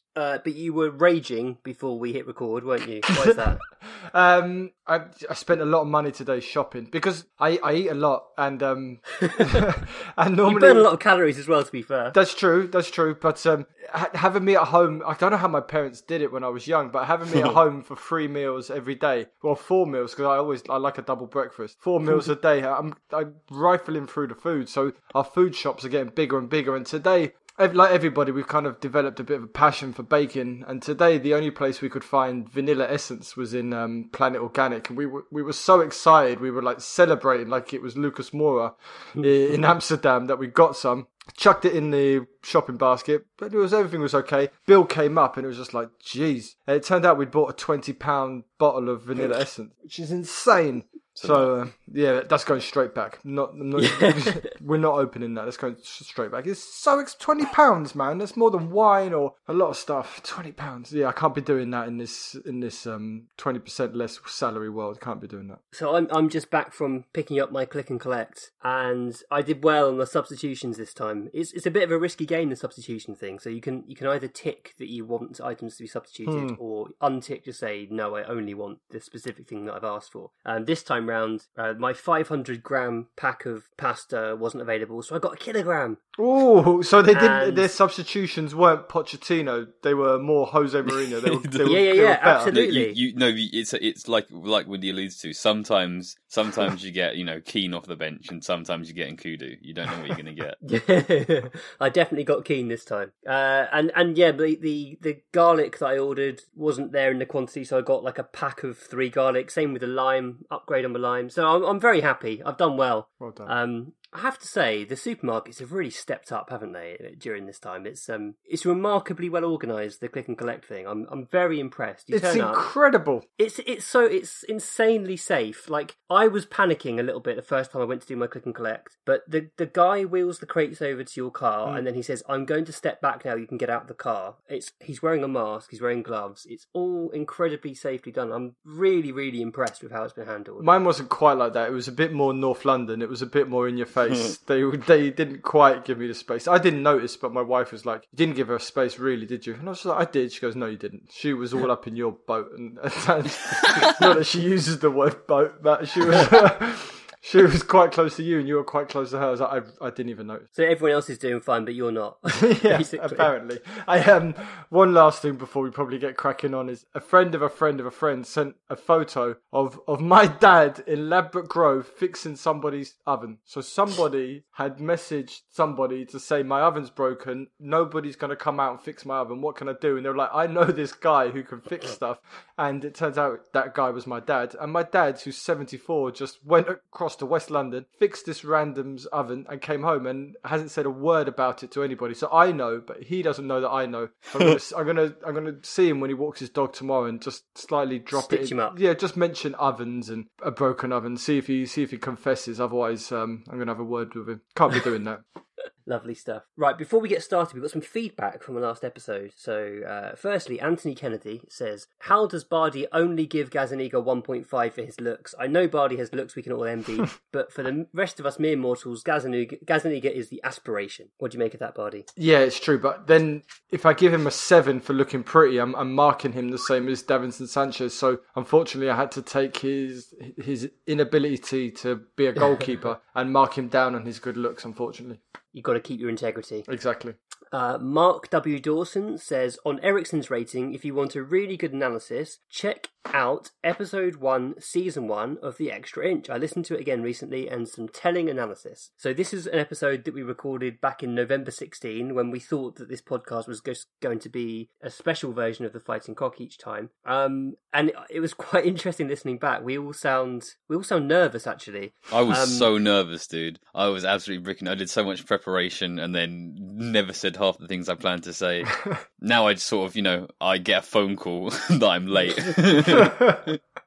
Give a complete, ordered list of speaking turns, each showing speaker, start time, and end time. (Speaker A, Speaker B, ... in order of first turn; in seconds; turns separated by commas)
Speaker A: 0.1-3.6, Speaker B: 3.3-10.9, Speaker A: 9.2-9.6, Speaker A: 10.4-12.2, Speaker B: 12.1-65.6, Speaker C: 51.2-51.5, Speaker A: 53.8-54.5, Speaker A: 65.7-86.0, Speaker B: 76.3-76.6, Speaker B: 86.2-92.6, Speaker A: 87.1-87.7, Speaker C: 91.2-91.9, Speaker A: 91.7-93.0, Speaker C: 92.5-100.6, Speaker A: 100.6-122.6, Speaker B: 113.2-113.5, Speaker B: 122.1-123.2, Speaker A: 123.4-140.7, Speaker B: 140.6-160.5, Speaker A: 160.6-163.3, Speaker B: 162.3-205.2, Speaker A: 198.1-198.8, Speaker A: 205.9-222.1, Speaker B: 222.2-235.2, Speaker A: 235.5-236.7, Speaker B: 236.7-237.2, Speaker A: 237.5-262.7, Speaker C: 262.1-273.6